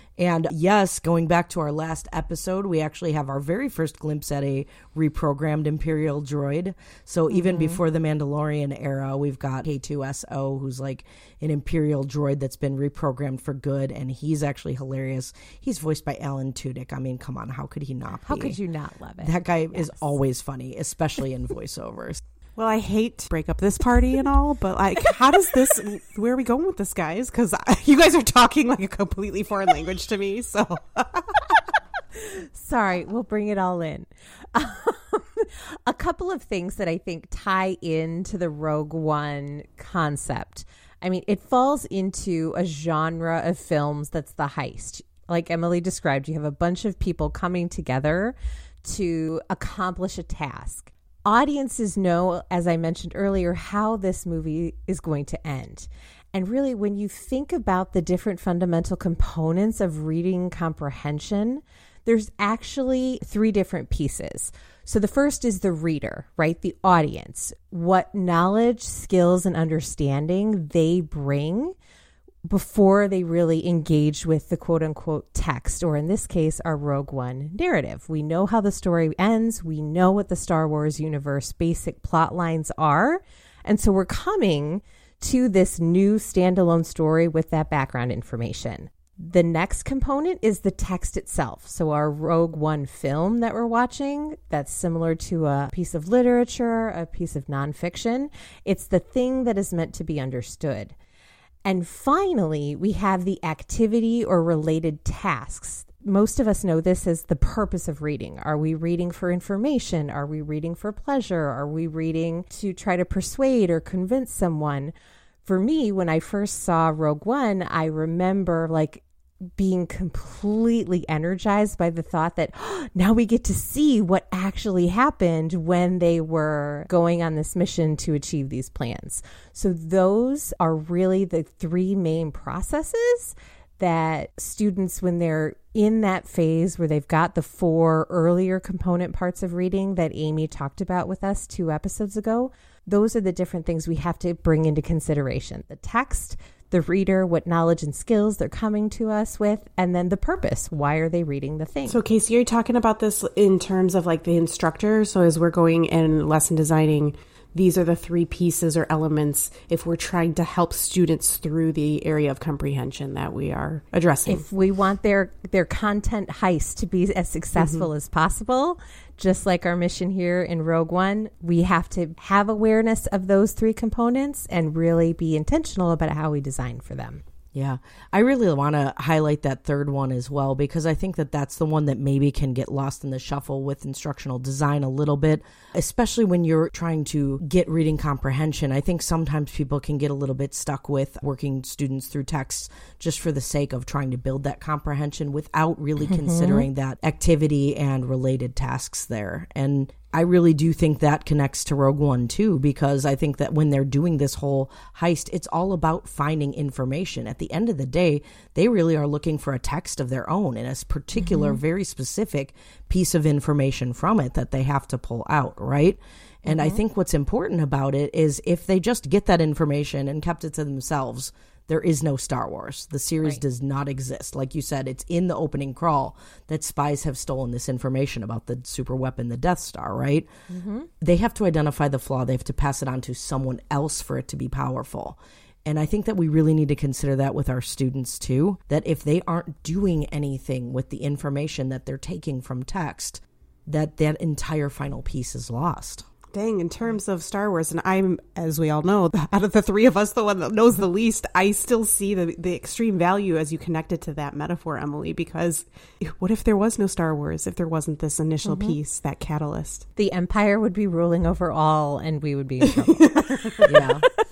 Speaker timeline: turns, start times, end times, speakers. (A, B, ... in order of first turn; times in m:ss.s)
0:00.2-0:18.6 A
0:07.3-0:07.8 B
0:18.2-0:20.1 B
0:19.2-0:22.2 A
0:22.6-0:31.4 C
0:32.2-1:11.8 B
1:12.4-1:40.9 B
1:41.6-1:54.9 B
1:55.4-1:59.0 B
1:59.6-2:32.0 B
2:31.9-2:44.4 C
2:44.3-2:57.2 B
2:47.6-2:47.9 C
2:57.5-3:50.3 A
3:16.1-3:16.7 B
3:31.2-3:31.6 B
3:36.5-3:36.8 B
3:50.5-3:50.9 B
3:51.0-4:06.1 A
4:06.3-4:19.9 C
4:18.4-4:18.8 B
4:20.0-4:23.7 B
4:23.0-4:23.6 C
4:23.6-4:24.1 A